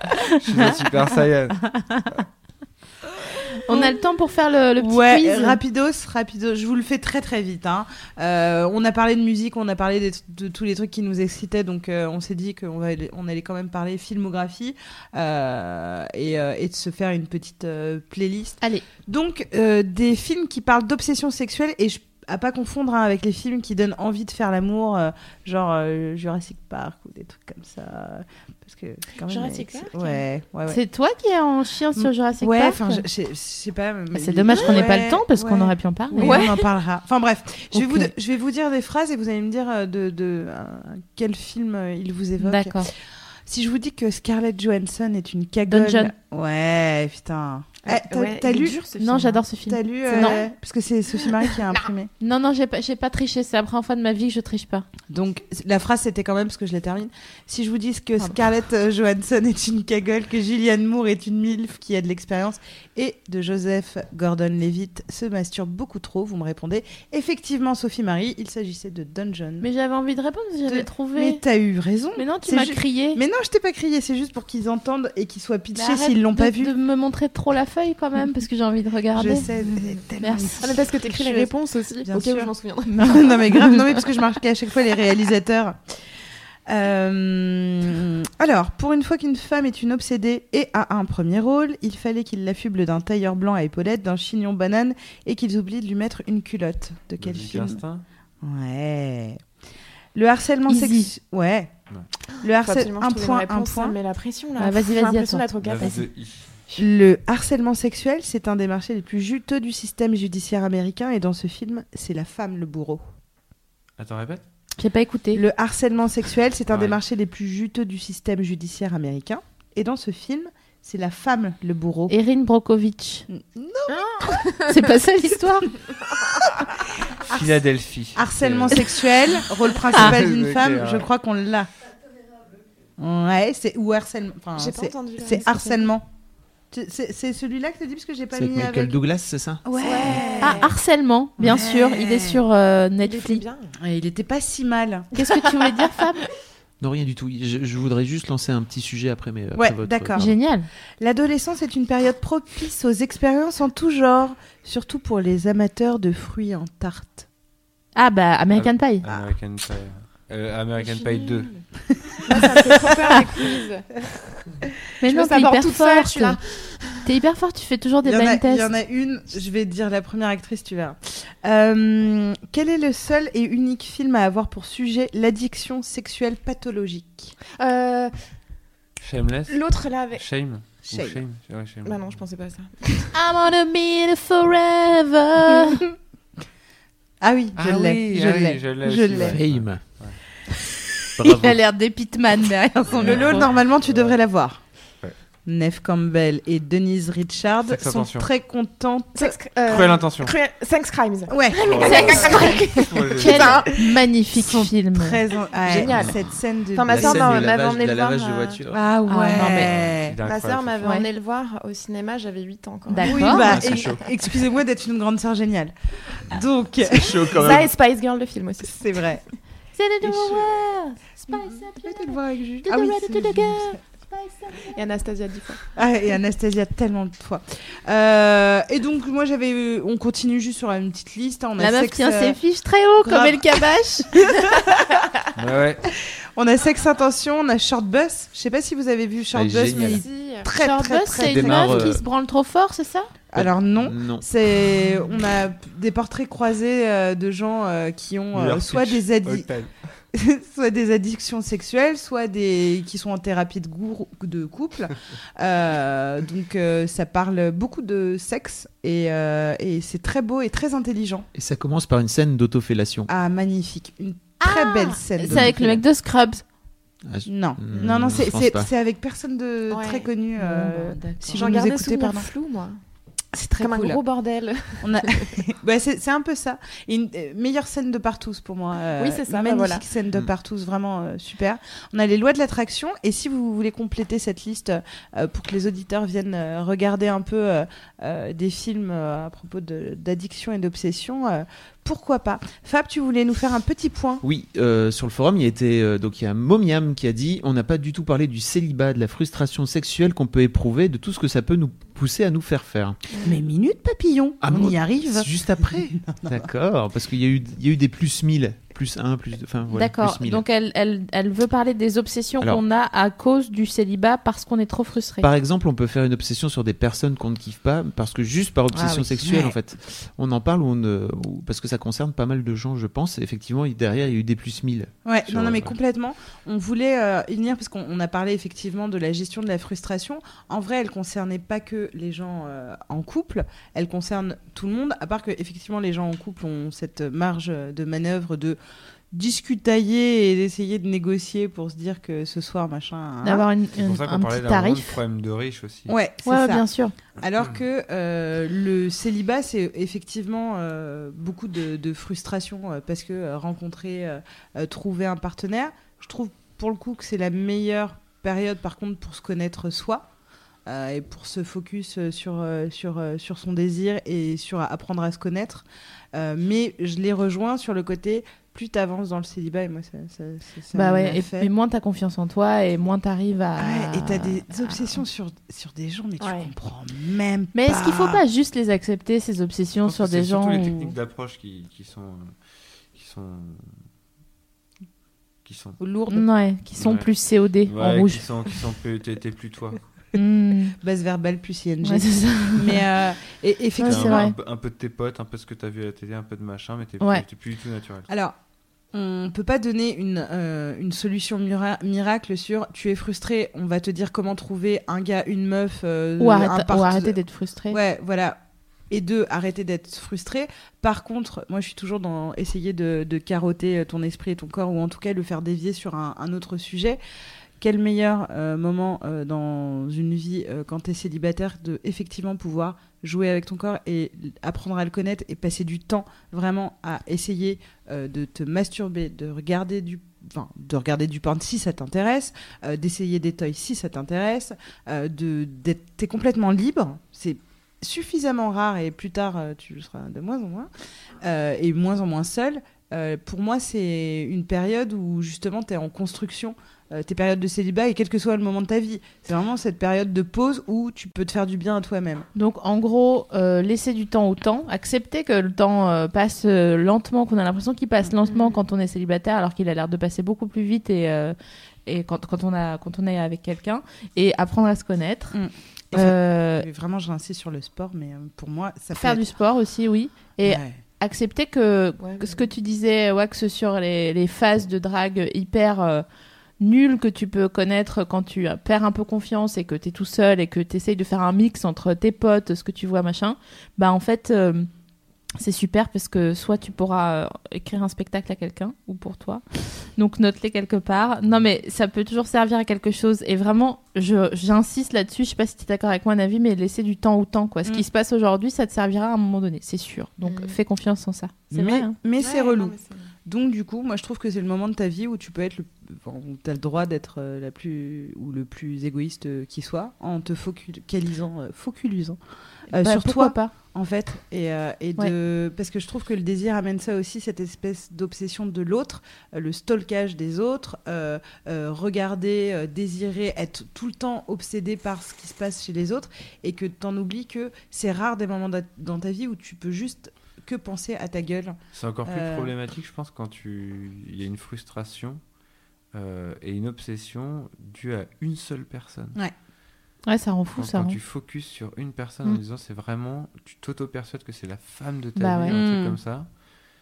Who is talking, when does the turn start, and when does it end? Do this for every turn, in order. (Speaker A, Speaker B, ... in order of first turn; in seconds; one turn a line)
Speaker A: 0.3-2.2
Speaker B: 3.6-4.0
Speaker C: 3.7-5.6
Speaker B: 4.8-30.8
Speaker D: 29.2-30.2
Speaker C: 30.7-33.0
Speaker B: 32.0-42.9
Speaker C: 34.1-36.5
Speaker D: 34.5-34.8
Speaker D: 36.2-36.7
Speaker C: 37.7-38.1
Speaker C: 42.4-42.9
Speaker B: 43.5-48.8
Speaker C: 45.7-46.1
Speaker D: 47.9-49.4
Speaker C: 49.0-50.4
Speaker B: 49.6-52.1
Speaker D: 50.1-50.4
Speaker D: 51.3-51.9
Speaker C: 52.2-54.9
Speaker B: 55.1-69.7
Speaker C: 69.6-71.4
Speaker B: 70.7-76.7
Speaker C: 72.2-73.2
Speaker C: 75.7-79.5
Speaker B: 79.1-86.0
Speaker C: 80.2-80.6
Speaker D: 80.6-84.0
Speaker C: 82.9-83.6
Speaker B: 86.7-97.8
Speaker A: 97.2-98.0
Speaker B: 98.4-99.4
Speaker B: 100.2-101.7
Speaker C: 100.7-101.1
Speaker B: 102.4-104.0
Speaker D: 102.6-106.1
Speaker C: 104.6-106.0
Speaker A: 105.6-106.5
Speaker B: 106.8-113.0
Speaker A: 114.0-114.4
Speaker C: 114.8-115.4
Speaker B: 115.3-122.1
Speaker A: 116.7-117.0
Speaker C: 122.1-123.3
Speaker B: 123.3-124.6
Speaker D: 123.9-124.7
Speaker C: 124.6-125.7
Speaker D: 126.1-126.4
Speaker B: 126.4-127.6
Speaker A: 127.3-129.0
Speaker B: 128.2-131.7
Speaker A: 129.9-131.1
Speaker B: 133.0-136.1
Speaker D: 134.6-135.9
Speaker B: 136.7-139.0
Speaker E: 138.3-139.6
Speaker B: 139.6-140.7
Speaker D: 139.8-140.8
Speaker C: 140.4-143.4
Speaker B: 141.4-142.4
Speaker D: 143.0-143.7
Speaker B: 143.8-145.1
Speaker C: 145.2-146.2
Speaker D: 145.3-145.7
Speaker E: 146.8-150.3
Speaker B: 149.6-150.4
Speaker C: 150.2-150.7
Speaker B: 151.0-157.3
Speaker C: 158.0-159.1
Speaker A: 158.6-161.6
Speaker D: 160.8-161.6
Speaker B: 162.2-162.7
Speaker D: 162.3-164.0
Speaker C: 165.0-166.4
Speaker D: 165.0-167.0
Speaker C: 167.0-168.7
Speaker B: 168.0-177.4
Speaker D: 177.5-178.1
Speaker A: 179.0-182.2
Speaker D: 179.5-180.2
Speaker B: 180.9-181.2
Speaker D: 181.8-183.1
Speaker C: 183.1-185.8
Speaker B: 187.2-189.4
Speaker A: 187.6-190.2
Speaker E: 189.2-189.8
Speaker E: 191.2-191.6
Speaker C: 191.2-193.5
Speaker B: 192.9-194.6
Speaker A: 192.9-194.2
Speaker B: 195.5-199.4
Speaker A: 197.7-198.3
Speaker D: 199.2-203.9
Speaker A: 199.7-200.3
Speaker B: 201.3-202.5
Speaker A: 201.6-203.7
Speaker C: 201.8-202.6
Speaker C: 203.2-205.2
Speaker B: 203.8-207.4
Speaker D: 205.6-208.6
Speaker E: 206.9-208.8
Speaker B: 208.7-210.3
Speaker C: 209.1-209.7
Speaker A: 209.5-210.9
Speaker D: 210.2-214.0
Speaker C: 212.9-213.5
Speaker B: 213.0-217.7
Speaker E: 213.3-214.0
Speaker E: 216.9-217.7
Speaker D: 217.3-218.8
Speaker B: 218.6-219.2
Speaker C: 219.8-224.5
Speaker B: 220.0-220.7
Speaker B: 221.3-223.8
Speaker D: 224.6-225.6
Speaker B: 225.7-232.4
Speaker C: 231.6-234.2
Speaker B: 233.0-235.1
Speaker A: 235.3-235.9
Speaker B: 236.3-242.0
Speaker E: 239.3-240.0
Speaker D: 239.9-240.5
Speaker C: 240.6-243.1
Speaker E: 241.2-242.0
Speaker B: 243.3-249.5
Speaker E: 243.4-244.2
Speaker A: 248.3-249.7
Speaker B: 250.1-261.3
Speaker E: 261.4-263.1
Speaker B: 263.1-265.8
Speaker C: 264.4-266.4
Speaker E: 267.0-268.7
Speaker B: 267.3-272.3
Speaker D: 267.7-268.2
Speaker D: 269.7-270.1
Speaker C: 270.4-271.5
Speaker D: 271.3-272.8
Speaker B: 273.3-274.0
Speaker D: 273.6-275.4
Speaker B: 274.8-294.2
Speaker D: 279.0-279.8
Speaker E: 294.2-303.0
Speaker B: 303.2-306.4
Speaker E: 304.4-310.4
Speaker C: 309.7-315.3
Speaker E: 315.2-325.7
Speaker C: 318.7-319.5
Speaker B: 325.1-338.6
Speaker B: 339.1-343.5
Speaker C: 343.2-345.0
Speaker A: 343.7-345.9
Speaker B: 345.9-346.7
Speaker C: 346.2-346.9
Speaker B: 347.2-360.1
Speaker B: 360.7-371.5
Speaker C: 370.7-375.0
Speaker B: 373.6-378.2
Speaker D: 376.2-376.5
Speaker C: 377.5-380.9
Speaker A: 379.9-382.3
Speaker A: 382.9-383.8
Speaker A: 385.4-385.8
Speaker B: 385.8-386.3
Speaker C: 386.1-388.2
Speaker A: 386.8-387.1
Speaker A: 387.7-389.8
Speaker C: 390.1-390.8
Speaker B: 390.8-394.3
Speaker C: 391.8-392.9
Speaker C: 393.8-394.4
Speaker A: 393.9-398.1
Speaker B: 398.1-398.4
Speaker B: 398.9-407.2
Speaker C: 406.2-407.8
Speaker B: 407.7-408.4
Speaker B: 408.9-417.0
Speaker B: 417.6-440.7
Speaker B: 441.2-452.3
Speaker C: 452.4-465.4
Speaker D: 458.3-458.6
Speaker B: 465.3-469.2
Speaker C: 465.9-466.7
Speaker C: 468.9-476.1
Speaker B: 470.4-470.8
Speaker D: 472.0-472.4
Speaker C: 476.6-484.7
Speaker C: 485.4-501.9
Speaker D: 500.2-500.6
Speaker B: 501.5-512.2
Speaker D: 502.2-503.1
Speaker C: 512.7-513.5
Speaker B: 512.7-532.5
Speaker A: 531.7-535.2
Speaker A: 535.9-539.2
Speaker C: 540.1-541.0
Speaker A: 540.6-546.3
Speaker C: 545.2-545.6
Speaker B: 545.5-546.0